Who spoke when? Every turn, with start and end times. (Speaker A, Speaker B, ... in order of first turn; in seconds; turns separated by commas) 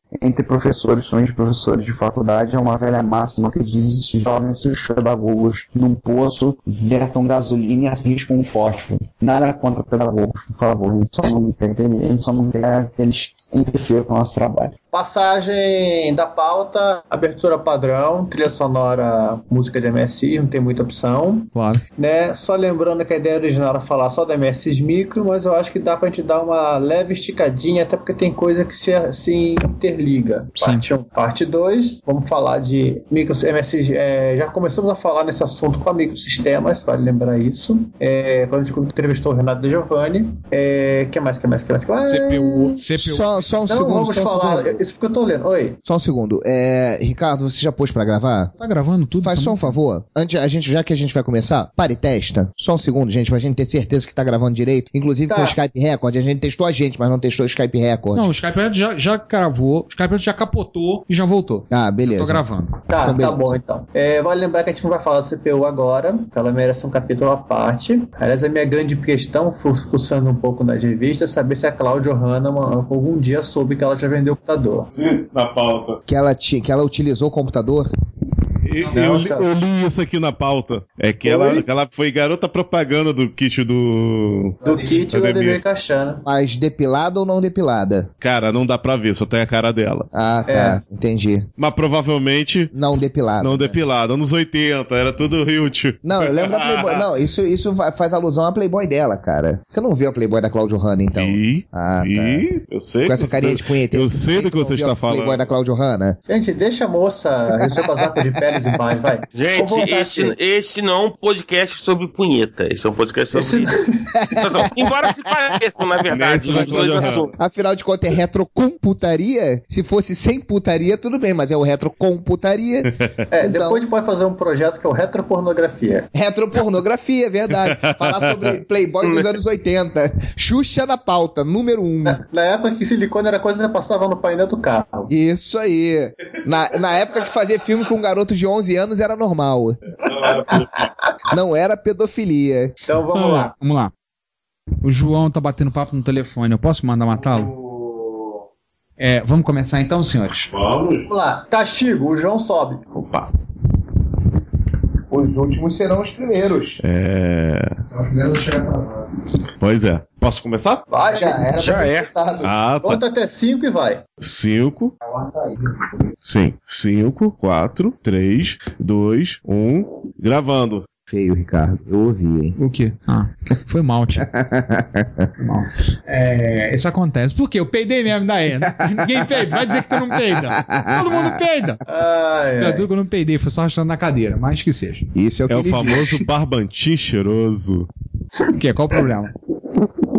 Speaker A: 0.2-14.7, Speaker B: 14.9-42.6, Speaker A: 21.5-21.8, Speaker A: 30.6-30.8, Speaker A: 42.0-43.5, Speaker C: 42.8-44.8, Speaker B: 43.6-45.8, Speaker C: 45.8-48.5, Speaker A: 48.6-49.8, Speaker C: 49.1-58.3, Speaker B: 55.3-55.6, Speaker A: 58.1-62.7, Speaker C: 61.7-62.4, Speaker B: 62.9-74.9, Speaker C: 63.0-63.6, Speaker D: 75.0-76.0, Speaker C: 76.1-77.9, Speaker D: 78.6-85.6, Speaker B: 78.9-79.5, Speaker B: 81.2-81.7, Speaker B: 84.6-86.2, Speaker C: 86.2-88.1, Speaker D: 88.2-90.1, Speaker C: 90.1-91.5, Speaker B: 90.5-90.8, Speaker D: 91.6-92.7, Speaker C: 92.7-93.8, Speaker D: 93.4-97.0, Speaker C: 96.0-102.5, Speaker D: 101.1-105.4, Speaker C: 103.0-106.2, Speaker B: 106.3-110.3, Speaker E: 109.3-113.7, Speaker B: 113.3-114.1, Speaker C: 114.2-115.3, Speaker E: 114.3-117.3, Speaker D: 116.1-117.3, Speaker C: 116.5-122.9, Speaker B: 123.3-126.1, Speaker C: 123.4-123.8, Speaker C: 126.1-132.2, Speaker D: 127.8-128.5, Speaker E: 129.0-129.3, Speaker B: 132.1-135.1, Speaker C: 135.1-139.8, Speaker D: 140.0-140.8, Speaker C: 141.3-142.7, Speaker B: 142.9-143.5, Speaker A: 143.2-143.9, Speaker A: 144.8-147.5, Speaker D: 147.1-148.3, Speaker A: 149.0-150.5, Speaker D: 150.5-151.1, Speaker B: 151.1-152.8, Speaker E: 152.9-153.2, Speaker C: 155.1-156.8, Speaker D: 156.8-157.7, Speaker A: 157.9-159.0, Speaker D: 159.6-160.8, Speaker B: 160.9-161.6, Speaker C: 161.1-162.9, Speaker E: 161.6-162.1, Speaker D: 162.4-163.0, Speaker B: 162.8-164.1, Speaker D: 164.2-164.9, Speaker A: 165.0-166.1, Speaker D: 166.2-170.8, Speaker C: 171.1-172.6, Speaker A: 172.6-174.3, Speaker C: 174.2-175.2, Speaker A: 175.4-181.8, Speaker C: 178.6-181.4, Speaker B: 181.9-182.9, Speaker A: 182.6-185.1, Speaker C: 185.1-186.3, Speaker D: 185.5-187.9, Speaker A: 188.5-189.3